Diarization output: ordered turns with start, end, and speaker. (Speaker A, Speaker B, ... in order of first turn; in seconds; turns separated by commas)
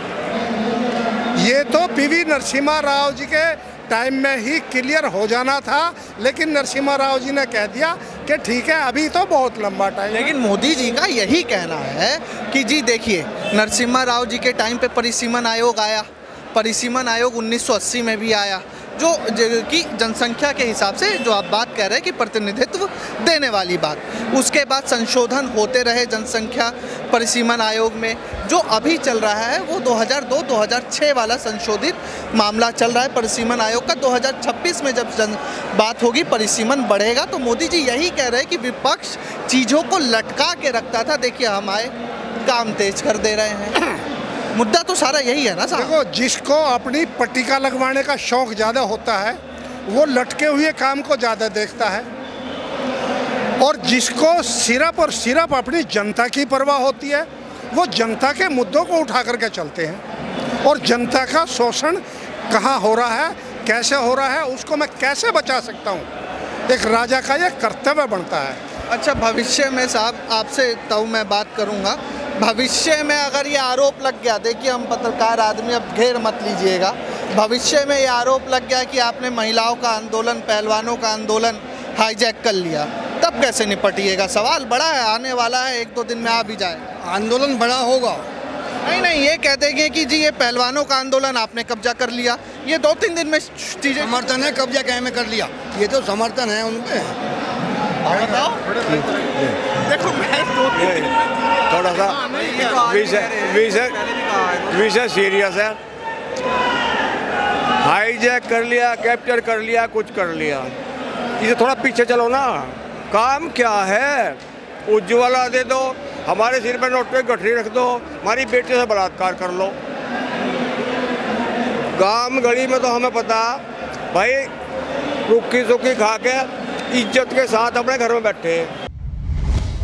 Speaker A: 1.4-10.3, Speaker B: 10.1-43.8, Speaker B: 44.5-45.9, Speaker A: 45.7-52.1, Speaker A: 53.6-60.0, Speaker A: 60.6-66.1, Speaker A: 66.7-68.6, Speaker B: 68.9-86.9, Speaker C: 87.0-88.3, Speaker B: 88.8-94.3, Speaker C: 94.0-97.2, Speaker C: 98.0-98.5, Speaker B: 99.9-100.7, Speaker D: 100.7-105.8, Speaker D: 107.8-110.7, Speaker D: 111.4-119.8, Speaker D: 122.0-123.6, Speaker D: 124.1-124.5, Speaker D: 125.3-128.7